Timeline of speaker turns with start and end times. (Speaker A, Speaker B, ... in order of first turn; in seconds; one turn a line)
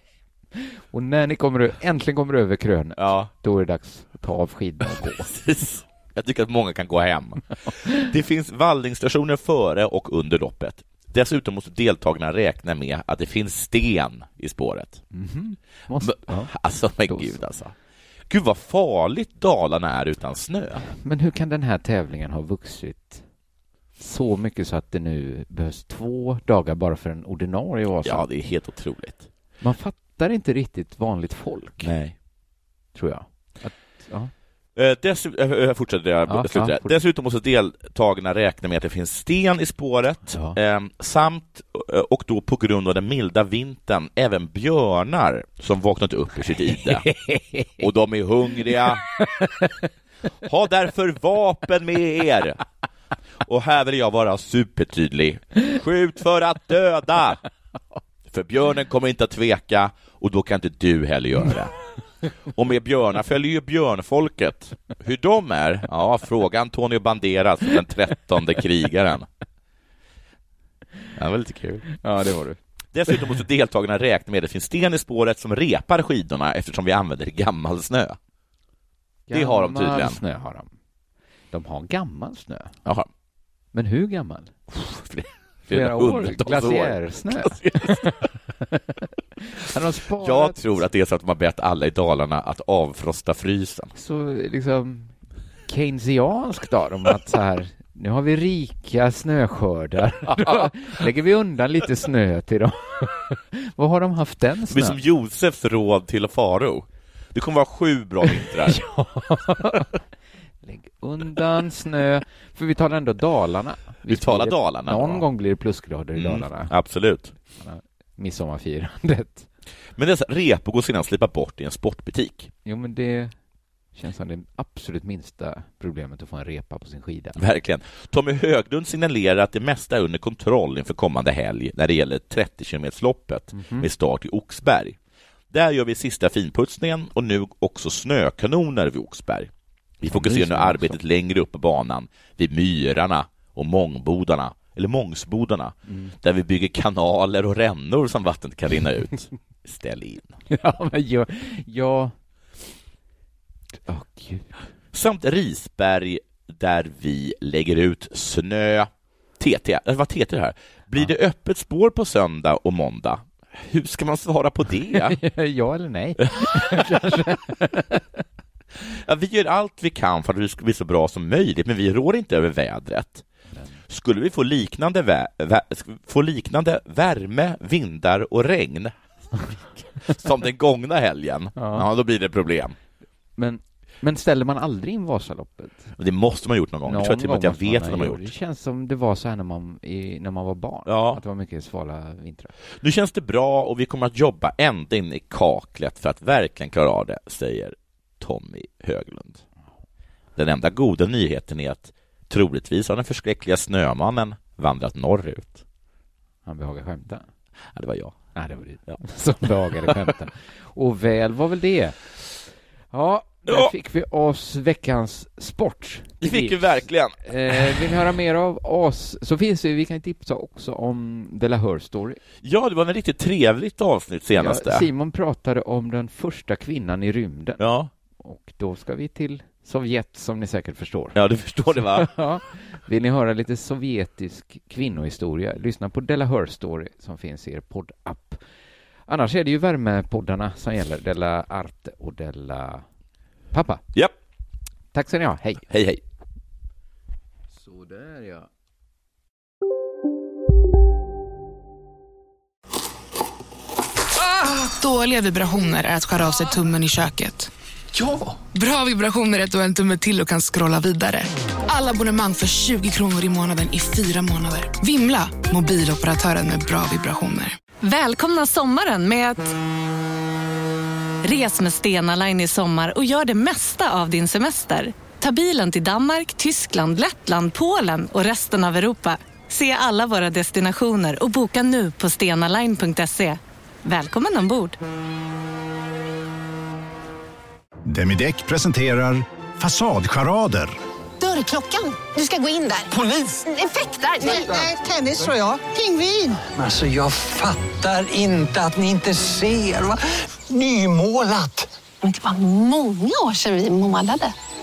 Speaker A: 0.6-5.3
Speaker B: 3.0-3.3
Speaker B: 5.2-15.0
Speaker A: 15.1-16.5
Speaker B: 16.0-17.7
Speaker A: 17.0-17.4
Speaker B: 18.3-20.8
Speaker A: 20.8-23.2
Speaker A: 24.0-28.2
Speaker B: 28.0-29.3
Speaker A: 29.6-31.9
Speaker B: 31.8-32.1
Speaker A: 32.9-34.3
Speaker B: 34.7-47.1
Speaker A: 36.3-36.9
Speaker A: 40.3-40.6
Speaker A: 46.9-47.8
Speaker B: 47.8-49.0
Speaker A: 49.3-49.7
Speaker B: 50.4-52.6
Speaker B: 53.4-57.4
Speaker B: 58.3-61.7
Speaker B: 62.5-69.3
Speaker B: 71.2-71.8
Speaker A: 71.9-72.6
Speaker B: 72.9-78.2
Speaker A: 79.3-80.7
Speaker B: 79.3-80.2
Speaker A: 81.5-82.8
Speaker A: 83.7-84.6
Speaker B: 84.7-88.1
Speaker A: 85.7-90.6
Speaker B: 90.2-93.9
Speaker A: 93.9-95.1
Speaker A: 95.7-105.0
Speaker B: 100.3-100.7
Speaker B: 104.7-108.8
Speaker A: 108.3-109.9
Speaker A: 110.6-116.7
Speaker B: 114.1-115.2
Speaker B: 116.1-117.3
Speaker A: 117.5-119.5
Speaker B: 120.0-122.5
Speaker A: 122.7-123.3
Speaker A: 123.9-127.4
Speaker B: 127.4-135.0
Speaker A: 133.5-133.9
Speaker B: 135.5-150.4
Speaker A: 140.1-141.0
Speaker A: 145.9-146.1
Speaker A: 150.5-152.1
Speaker A: 153.9-154.6
Speaker B: 154.9-165.2
Speaker A: 164.9-168.1
Speaker B: 168.8-173.2
Speaker B: 173.9-178.9
Speaker B: 179.9-182.7
Speaker A: 181.6-181.8
Speaker A: 183.4-185.9
Speaker B: 186.0-188.3
Speaker A: 186.8-192.5
Speaker B: 190.8-191.2
Speaker B: 192.8-199.4
Speaker B: 200.3-205.6
Speaker A: 206.4-207.2
Speaker B: 207.7-208.2
Speaker A: 208.3-212.0
Speaker A: 212.9-222.2
Speaker B: 213.5-213.7
Speaker B: 216.2-217.9
Speaker B: 222.4-224.9
Speaker A: 224.3-227.6
Speaker B: 227.6-227.9
Speaker A: 228.2-231.2
Speaker B: 231.1-232.1
Speaker A: 231.8-238.4
Speaker A: 239.1-242.8
Speaker A: 243.5-243.8
Speaker A: 244.9-245.7
Speaker B: 245.7-246.0
Speaker A: 247.7-248.4
Speaker C: 254.4-257.5
Speaker C: 258.5-267.6
Speaker D: 267.8-269.5
Speaker D: 271.2-284.8
Speaker E: 287.9-290.8
Speaker F: 291.2-296.4
Speaker G: 296.4-301.7
Speaker F: 302.0-304.3